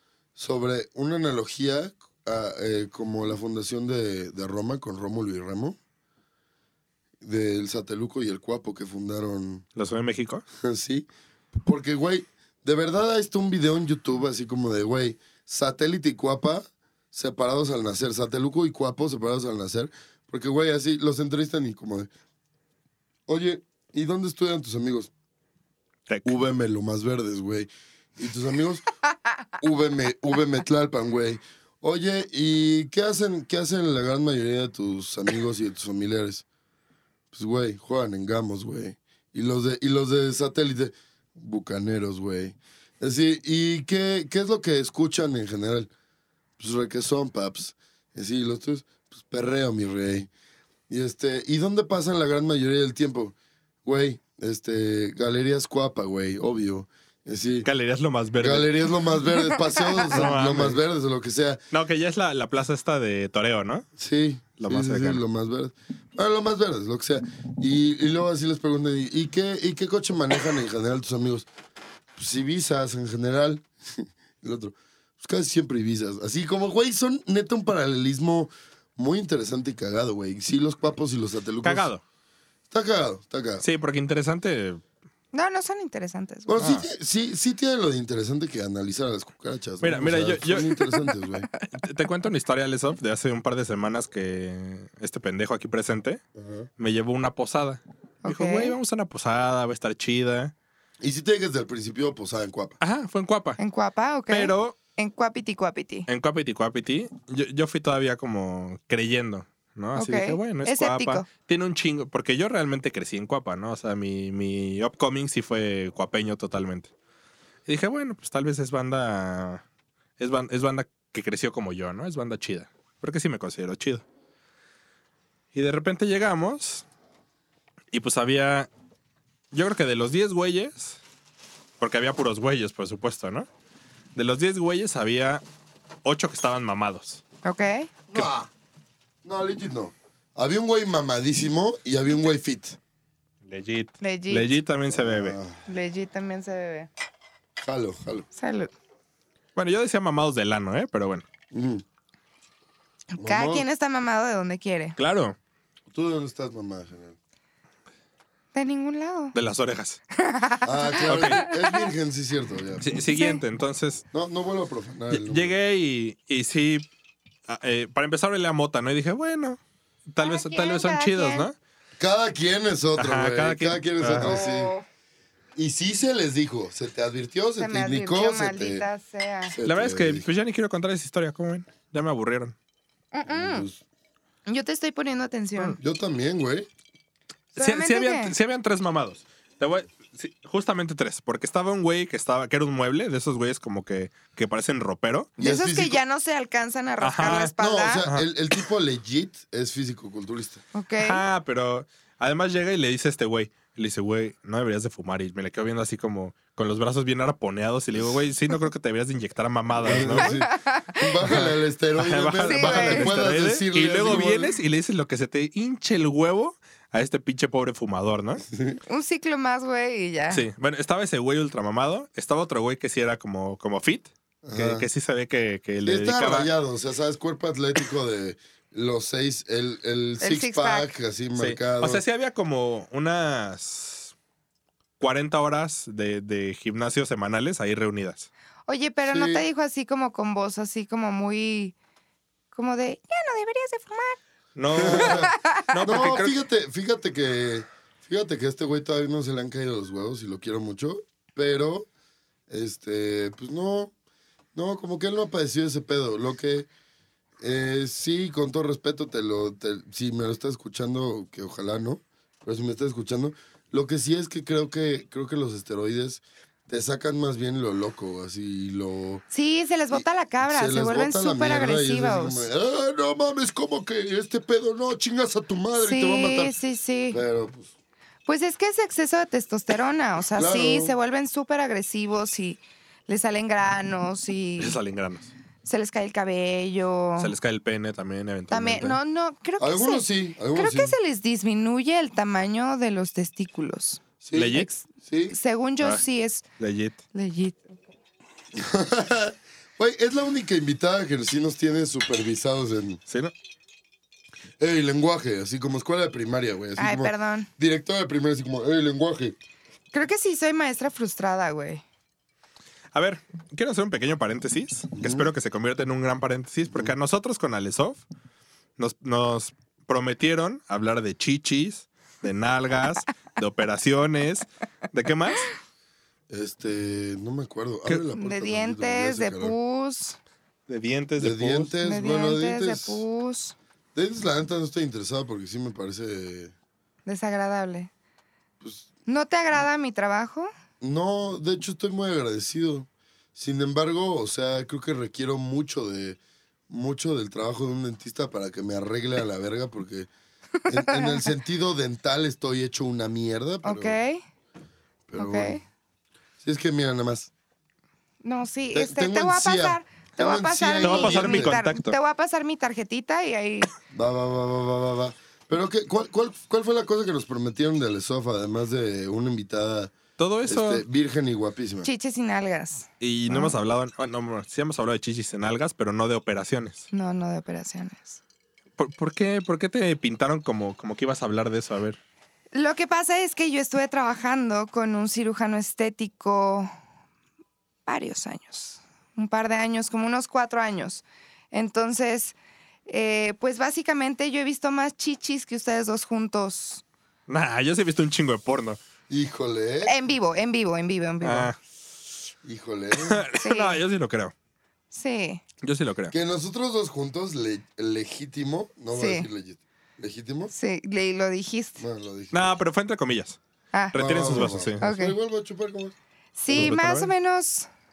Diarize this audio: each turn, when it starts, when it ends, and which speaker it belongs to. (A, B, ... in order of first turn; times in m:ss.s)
0:00.4-0:05.8 A
0:07.2-0:09.6 A
0:09.8-0:10.4 B
0:10.6-0:11.1 A
0:11.6-0:22.1 A
0:23.3-0:25.1 A
0:26.1-0:26.4 B
0:26.3-0:28.8 A
0:29.6-0:36.4 A
0:37.3-0:45.9 A
0:46.6-0:50.3 A
0:50.9-0:57.7 A
0:57.6-0:58.9 B
0:58.4-1:01.6 A
1:00.1-1:00.8 B
1:01.7-1:03.9 B
1:04.0-1:11.5 A
1:04.6-1:05.2 B
1:12.2-1:21.9 A
1:21.6-1:22.0 B
1:22.7-1:23.6 A
1:23.6-1:24.8 B
1:25.3-1:26.6 C
1:26.5-1:31.5 A
1:26.6-1:26.9 B
1:29.8-1:30.9 B
1:31.6-1:36.2 B
1:36.4-1:36.7 A
1:36.8-1:40.5 B
1:38.2-1:38.8 C
1:41.0-1:42.8 A
1:42.8-1:43.6 B
1:43.6-1:46.1 C
1:44.3-1:44.8 B
1:46.1-1:56.9 B
1:50.0-1:51.3 C
1:57.7-1:59.6 B
2:00.2-2:04.0 B
2:05.5-2:06.9 B
2:07.9-2:08.7 B
2:09.5-2:11.0 B
2:11.8-2:13.5 B
2:14.2-2:15.4 B
2:16.0-2:17.2 B
2:17.4-2:17.9 C
2:18.1-2:18.5 A
2:19.2-2:22.8 A
2:23.4-2:25.4 B
2:24.0-2:24.6 C
2:24.9-2:25.6 A
2:25.7-2:26.9 C
2:27.6-2:28.3 A
2:28.4-2:28.7 C
2:29.6-2:31.3 B
2:31.5-2:31.8 A
2:33.1-2:35.0 C
2:33.2-2:33.7 A
2:35.0-2:35.4 B
2:35.9-2:37.2 A
2:38.5-2:39.4 C
2:39.3-2:40.0 B
2:40.2-2:41.8 C
2:40.6-2:42.9 A
2:41.0-2:41.5 B
2:42.8-2:44.0 B
2:43.1-2:43.4 C
2:44.1-2:45.6 A
2:45.1-2:46.9 B
2:47.5-2:49.6 B
2:50.1-2:51.6 B
2:50.2-2:51.5 C
2:52.0-2:54.8 A
2:53.0-2:54.4 B
2:54.2-2:54.9 C
2:55.6-2:58.8 A
2:57.6-2:59.6 C
2:59.5-3:00.3 A
2:59.6-3:02.6 B
3:03.1-3:03.7 C
3:03.3-3:03.8 A
3:04.5-3:05.8 C
3:05.8-3:06.7 A
3:07.6-3:15.3 B
3:07.6-3:08.4 C
3:15.4-3:16.0 A
3:15.4-3:18.0 C
3:17.0-3:17.5 B
3:17.5-3:20.6 A
3:20.7-3:21.2 C
3:21.0-3:30.4 B
3:29.8-3:34.6 A
3:30.1-3:31.2 C
3:31.2-3:38.4 B
3:32.5-3:33.1 C
3:38.5-3:38.8 A
3:38.9-3:40.4 C
3:40.3-3:46.5 B
3:44.4-3:44.9 A
3:45.8-3:52.0 A
3:50.2-3:50.9 C
3:51.4-3:54.1 B
3:55.0-3:58.3 B
3:58.7-4:01.8 C
3:59.1-3:59.4 A
4:02.5-4:04.2 C
4:04.6-4:06.4 B
4:04.7-4:11.9 A
4:04.7-4:06.0 C
4:12.5-4:13.9 A
4:14.6-4:16.7 A
4:17.4-4:29.2 A
4:29.3-4:32.5 C
4:29.9-4:36.6 A
4:35.7-4:37.2 C
4:37.1-4:37.7 A
4:38.3-4:44.8 C
4:40.4-4:40.9 A
4:44.6-4:45.3 B
4:45.6-4:47.4 C
4:47.2-4:49.0 B
4:48.5-4:54.0 C
4:49.6-4:51.0 A
4:54.2-4:55.4 A
4:54.3-4:54.7 B
4:54.6-4:56.4 C
4:56.6-4:57.0 B
4:57.1-4:57.7 C
4:58.6-5:03.0 A
5:04.6-5:09.4 A
5:06.8-5:07.5 C
5:09.9-5:11.8 C
5:12.9-5:18.0 B
5:15.0-5:15.3 A
5:18.8-5:25.5 B
5:26.3-5:29.6 A
5:28.1-5:30.2 C
5:30.7-5:31.7 B
5:31.2-5:33.0 A
5:31.8-5:33.6 C
5:34.0-5:36.5 A
5:37.1-5:37.9 C
5:38.6-5:38.9 A
5:39.1-5:40.5 C
5:40.8-5:50.1 A
5:50.6-5:51.3 C
5:50.7-5:54.0 A
5:53.6-5:54.2 C
5:55.1-5:55.6 A
5:55.2-5:55.6 C
5:56.4-5:57.3 A
5:58.2-6:03.7 C
5:58.7-6:01.6 A
6:00.8-6:02.0 B
6:03.9-6:09.9 A
6:10.2-6:10.8 B
6:10.4-6:11.9 A
6:11.8-6:13.6 C
6:13.0-6:16.9 B
6:16.9-6:18.2 C
6:18.8-6:22.0 B
6:22.5-6:26.7 C
6:27.9-6:32.4 C
6:32.9-6:36.8 C
6:37.3-6:38.8 B
6:39.1-6:40.0 A
6:39.8-6:41.5 C
6:41.2-6:41.6 B
6:42.4-6:43.2 A
6:43.0-6:44.3 B
6:43.4-6:43.8 C
6:44.9-6:45.4 C
6:45.6-6:46.2 B
6:46.1-6:50.5 A
6:48.9-6:49.3 C
6:50.5-6:51.8 C
6:51.8-6:52.6 A
6:52.3-6:53.4 B
6:53.7-6:55.2 C
6:53.9-6:54.8 B
6:53.9-6:56.0 A
6:56.4-6:57.7 C
6:56.5-6:56.8 A
6:56.5-6:57.1 B